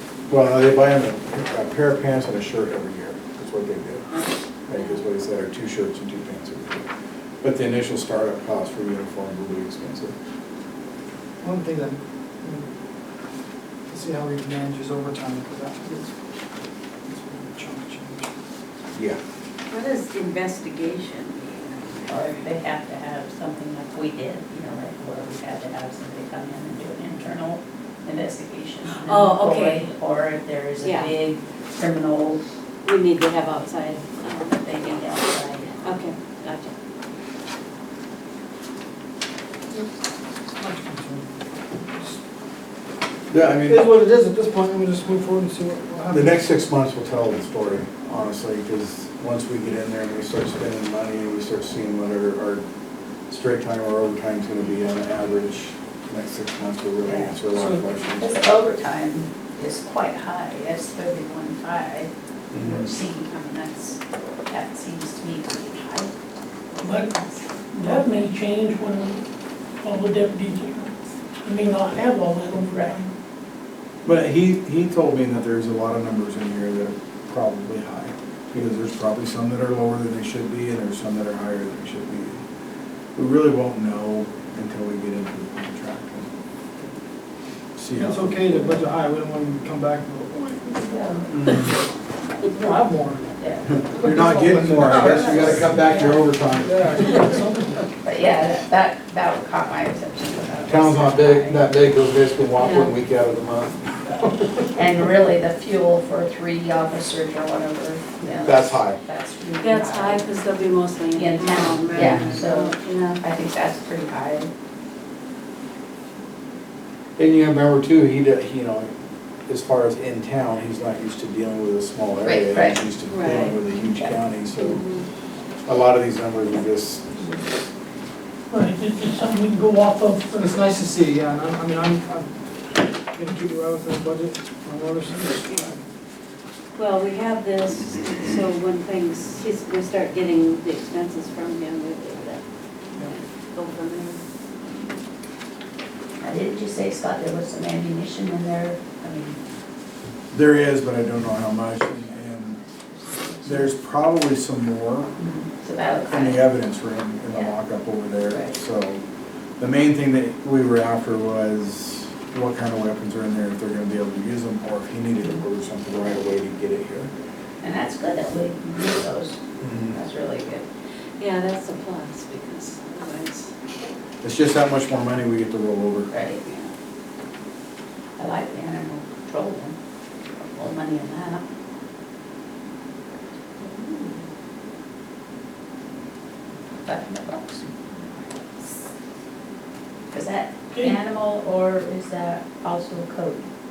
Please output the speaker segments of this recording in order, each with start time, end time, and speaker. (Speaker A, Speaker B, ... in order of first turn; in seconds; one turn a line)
Speaker A: 0.3-4.0
Speaker B: 4.1-5.0
Speaker A: 4.7-6.9
Speaker A: 7.4-10.2
Speaker C: 11.4-12.7
Speaker C: 13.9-16.1
Speaker C: 17.1-18.3
Speaker A: 18.9-19.2
Speaker B: 19.7-22.4
Speaker D: 22.1-32.4
Speaker B: 28.9-29.9
Speaker B: 30.8-31.1
Speaker B: 32.9-36.7
Speaker D: 34.6-35.9
Speaker C: 40.6-42.2
Speaker A: 43.3-43.9
Speaker C: 43.6-46.4
Speaker A: 46.1-52.6
Speaker A: 53.3-58.4
Speaker D: 57.0-66.1
Speaker A: 62.5-62.9
Speaker D: 66.7-68.2
Speaker E: 67.7-69.0
Speaker E: 69.8-70.9
Speaker E: 71.4-73.0
Speaker D: 72.7-73.0
Speaker A: 74.0-82.4
Speaker A: 83.2-86.3
Speaker A: 87.8-88.8
Speaker C: 87.9-91.7
Speaker D: 90.9-91.5
Speaker C: 92.4-97.8
Speaker D: 93.4-93.9
Speaker A: 93.7-97.0
Speaker D: 95.0-95.9
Speaker D: 98.0-101.7
Speaker A: 100.7-104.5
Speaker B: 102.6-102.9
Speaker D: 104.8-110.3
Speaker A: 108.4-109.0
Speaker B: 109.6-113.2
Speaker D: 111.1-114.5
Speaker A: 117.2-118.9
Speaker A: 119.5-124.8
Speaker D: 122.2-122.8
Speaker B: 123.1-123.6
Speaker B: 124.5-125.1
Speaker A: 125.7-127.3
Speaker E: 128.5-130.4
Speaker C: 130.4-135.8
Speaker B: 136.8-142.4
Speaker B: 142.9-144.2
Speaker D: 146.2-149.4
Speaker A: 150.3-152.6
Speaker D: 153.2-153.7
Speaker A: 153.4-155.1
Speaker D: 155.2-156.4
Speaker A: 156.1-159.0
Speaker D: 158.3-158.5
Speaker A: 159.6-167.1
Speaker D: 167.6-170.7
Speaker A: 169.6-170.0
Speaker B: 171.2-173.5
Speaker A: 174.2-176.1
Speaker D: 176.1-176.7
Speaker D: 178.2-179.8
Speaker D: 180.4-181.4
Speaker B: 183.8-184.1
Speaker D: 186.8-188.9
Speaker D: 190.1-193.5